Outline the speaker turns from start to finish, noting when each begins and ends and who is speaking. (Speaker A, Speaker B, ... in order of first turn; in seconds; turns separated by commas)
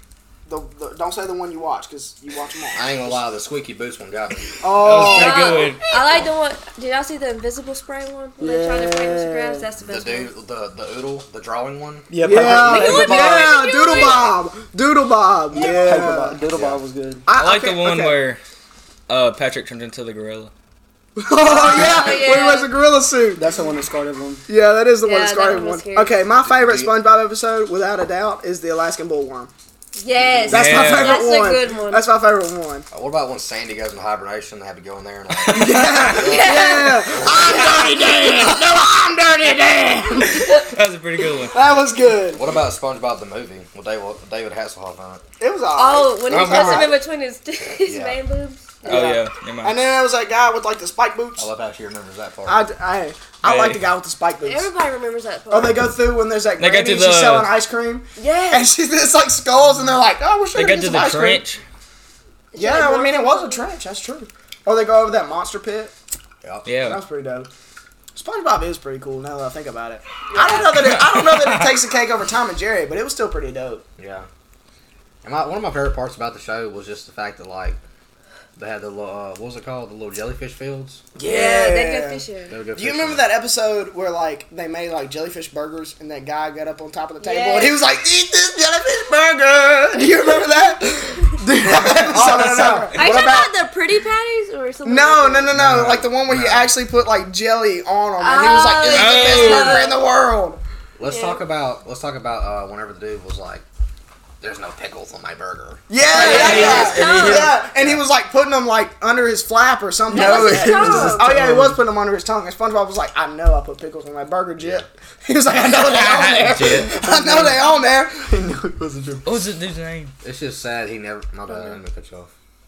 Speaker A: 0.5-3.2, Speaker B: 2.7-4.6, Speaker A: 4.6-5.8, Speaker C: 4.8-5.8, Speaker D: 5.0-10.3, Speaker E: 8.4-9.6, Speaker B: 9.9-12.1, Speaker E: 12.1-13.6, Speaker A: 12.2-16.4, Speaker D: 12.3-14.2, Speaker B: 13.8-14.4, Speaker E: 15.5-17.2, Speaker D: 15.6-16.1, Speaker B: 16.5-16.8, Speaker A: 17.2-18.2, Speaker C: 17.4-18.4, Speaker C: 19.1-20.5, Speaker A: 21.2-23.4, Speaker D: 21.4-22.7, Speaker E: 21.7-22.0, Speaker E: 23.4-24.4, Speaker A: 24.5-29.5, Speaker D: 25.0-26.1, Speaker B: 26.3-26.9, Speaker D: 30.0-32.1, Speaker A: 30.4-32.9, Speaker C: 30.5-31.3, Speaker B: 32.9-37.8, Speaker A: 35.5-40.6, Speaker D: 35.9-38.3, Speaker C: 40.4-41.6, Speaker A: 41.5-42.5, Speaker B: 42.3-45.2, Speaker A: 45.4-46.9, Speaker D: 45.7-48.7, Speaker B: 46.3-46.9, Speaker B: 47.8-48.2, Speaker A: 48.8-51.5, Speaker C: 48.8-49.8, Speaker B: 51.4-52.6, Speaker A: 52.5-54.7, Speaker C: 53.4-53.8, Speaker D: 54.4-55.9, Speaker A: 55.5-61.4, Speaker C: 56.6-57.5, Speaker D: 58.2-58.7, Speaker C: 60.5-61.6, Speaker D: 62.5-63.6, Speaker A: 62.5-65.9, Speaker B: 66.4-66.7, Speaker C: 66.7-67.0, Speaker A: 66.8-67.5, Speaker A: 68.1-73.8, Speaker D: 70.3-70.9, Speaker C: 70.7-71.6, Speaker B: 74.0-74.3, Speaker B: 75.2-77.8, Speaker B: 78.6-81.0, Speaker A: 81.2-82.2, Speaker D: 81.2-82.6, Speaker B: 82.5-83.2, Speaker A: 82.7-93.5, Speaker D: 87.2-87.8, Speaker C: 91.7-92.8, Speaker E: 92.1-92.9, Speaker D: 92.9-95.5, Speaker A: 94.8-100.6, Speaker C: 95.5-96.0, Speaker B: 95.6-96.8, Speaker D: 98.2-100.0, Speaker C: 98.8-99.9, Speaker B: 101.0-103.6, Speaker D: 101.1-101.4, Speaker B: 104.4-106.9, Speaker A: 105.9-118.2, Speaker C: 106.1-107.5, Speaker E: 106.1-107.5, Speaker D: 106.1-107.6, Speaker B: 107.7-108.0, Speaker E: 110.1-111.8, Speaker D: 110.1-111.3, Speaker B: 114.6-114.9, Speaker C: 115.8-116.9, Speaker E: 116.7-119.4, Speaker C: 119.2-120.1, Speaker B: 120.2-122.3, Speaker D: 121.5-121.8